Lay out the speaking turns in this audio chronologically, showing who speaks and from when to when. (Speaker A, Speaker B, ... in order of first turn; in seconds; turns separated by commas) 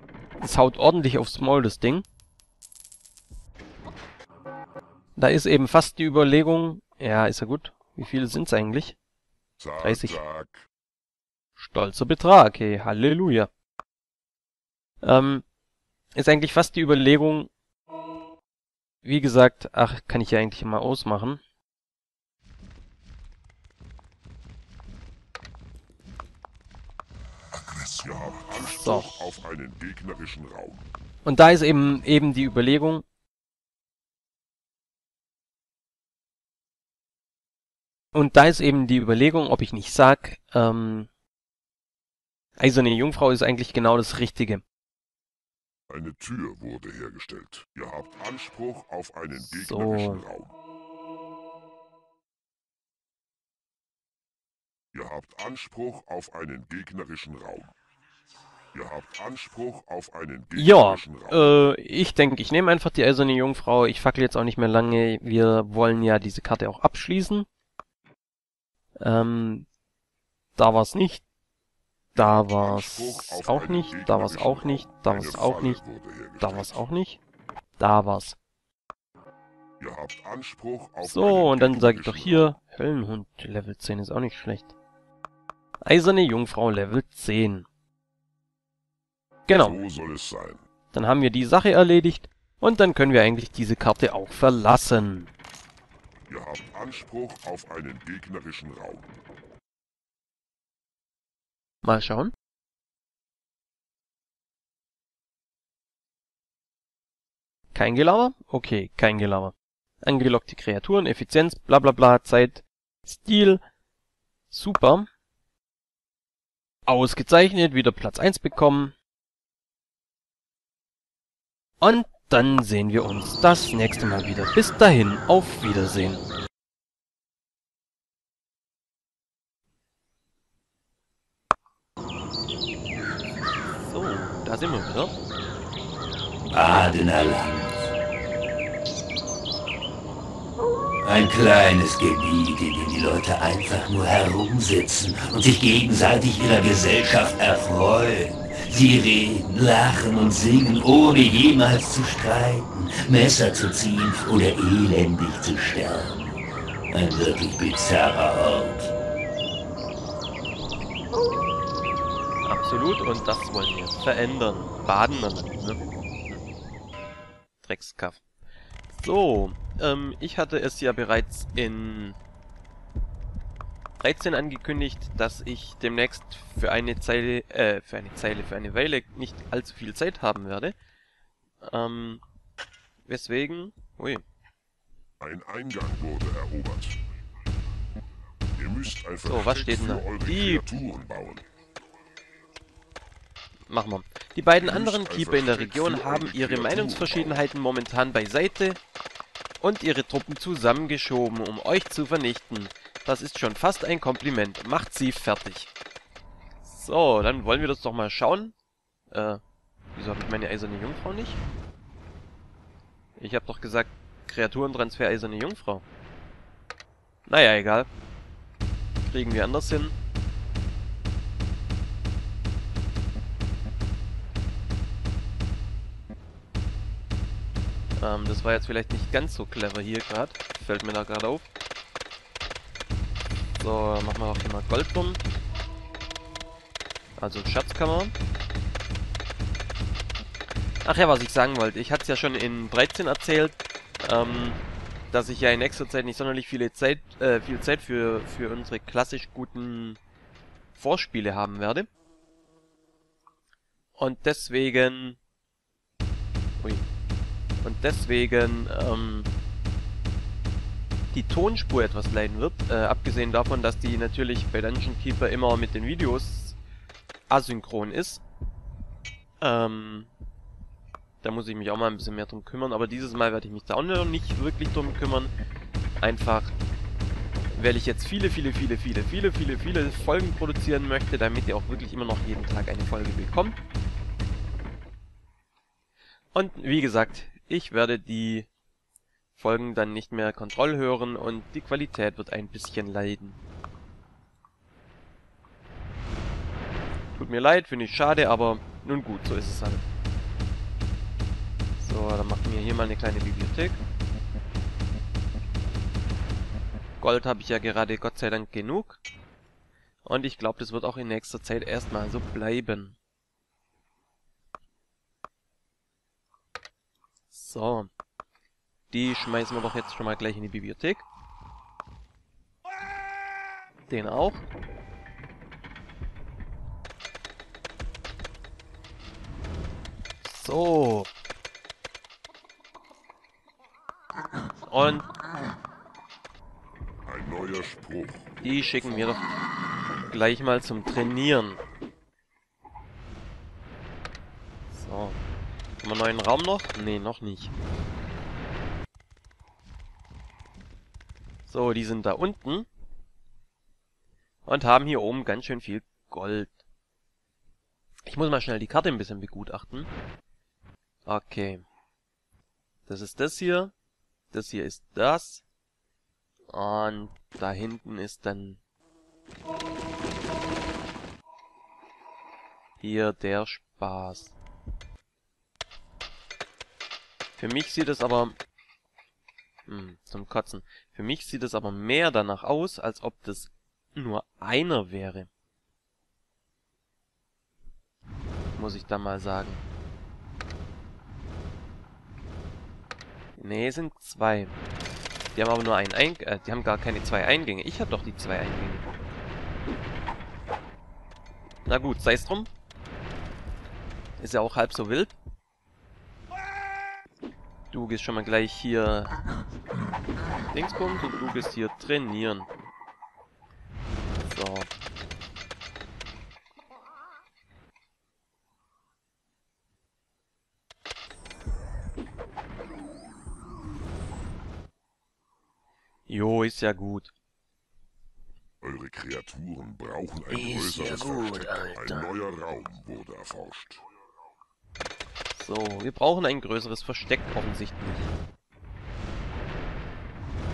Speaker A: 0.4-2.0, Speaker A: 5.2-8.9, Speaker B: 9.6-10.7, Speaker A: 9.8-10.2, Speaker A: 11.6-13.5, Speaker A: 15.0-15.4, Speaker A: 16.1-17.5, Speaker A: 19.0-21.4, Speaker B: 28.0-30.8, Speaker A: 28.8-29.3, Speaker A: 31.2-33.0, Speaker A: 38.1-41.1, Speaker A: 42.6-44.6, Speaker B: 45.9-50.5, Speaker A: 49.4-50.2, Speaker B: 54.9-57.7, Speaker B: 58.7-61.7, Speaker A: 60.5-67.5, Speaker A: 69.0-69.7, Speaker A: 70.6-71.2, Speaker B: 72.2-76.8, Speaker A: 72.2-75.8, Speaker A: 76.4-77.2, Speaker A: 77.8-78.4, Speaker B: 79.8-82.5, Speaker A: 81.0-84.7, Speaker A: 85.9-87.7, Speaker A: 89.5-89.8, Speaker B: 89.5-90.6, Speaker A: 90.9-95.3, Speaker B: 96.3-99.1, Speaker A: 101.8-102.3, Speaker A: 107.7-113.6, Speaker A: 114.5-115.1, Speaker A: 116.9-118.9, Speaker A: 121.8-126.2, Speaker A: 133.8-135.2, Speaker C: 136.5-137.9, Speaker C: 141.0-156.4, Speaker C: 156.9-158.9, Speaker A: 162.4-166.4, Speaker A: 167.6-168.2, Speaker A: 168.9-172.2, Speaker A: 174.0-180.8, Speaker A: 181.6-182.2, Speaker A: 183.1-184.2, Speaker B: 185.2-187.0, Speaker B: 188.6-191.5, Speaker A: 189.2-190.7, Speaker A: 193.7-198.8, Speaker B: 194.6-197.5, Speaker A: 199.6-205.7, Speaker A: 206.6-208.5, Speaker A: 209.1-209.4, Speaker A: 209.9-211.4, Speaker A: 213.2-215.8, Speaker A: 217.3-217.9, Speaker A: 219.0-220.0, Speaker A: 228.0-231.5, Speaker A: 233.6-235.2, Speaker A: 237.2-238.2, Speaker A: 240.8-244.6, Speaker A: 245.1-250.0, Speaker A: 250.7-251.9, Speaker A: 254.0-255.2, Speaker A: 256.6-256.9, Speaker A: 257.6-259.3, Speaker A: 261.1-266.6, Speaker A: 267.3-268.2, Speaker A: 269.4-270.1, Speaker A: 271.2-275.3, Speaker A: 276.0-276.5, Speaker A: 277.5-283.6, Speaker A: 286.3-288.5, Speaker A: 289.4-293.4, Speaker A: 297.1-299.8, Speaker A: 301.8-303.8, Speaker A: 307.0-309.0, Speaker A: 310.0-313.0, Speaker A: 317.3-317.9, Speaker A: 318.9-321.1, Speaker A: 323.9-324.5, Speaker A: 330.2-331.1, Speaker A: 334.7-335.1, Speaker B: 337.1-339.1, Speaker A: 338.4-339.3, Speaker A: 340.1-341.6, Speaker A: 344.7-345.2, Speaker A: 345.8-347.5, Speaker A: 351.5-352.7, Speaker A: 354.4-356.5, Speaker A: 358.0-359.9, Speaker A: 361.1-361.6, Speaker A: 362.9-363.7, Speaker A: 364.3-365.4, Speaker A: 366.5-368.6, Speaker A: 372.8-374.4, Speaker A: 377.4-378.4, Speaker A: 379.7-385.3, Speaker A: 388.5-389.6, Speaker A: 393.4-394.6, Speaker A: 395.3-398.9, Speaker A: 401.7-402.5, Speaker A: 404.2-405.1, Speaker A: 407.7-409.2, Speaker A: 410.5-412.5, Speaker A: 414.2-414.7, Speaker A: 426.1-427.1, Speaker B: 428.6-433.8, Speaker A: 430.3-432.1, Speaker A: 435.3-438.1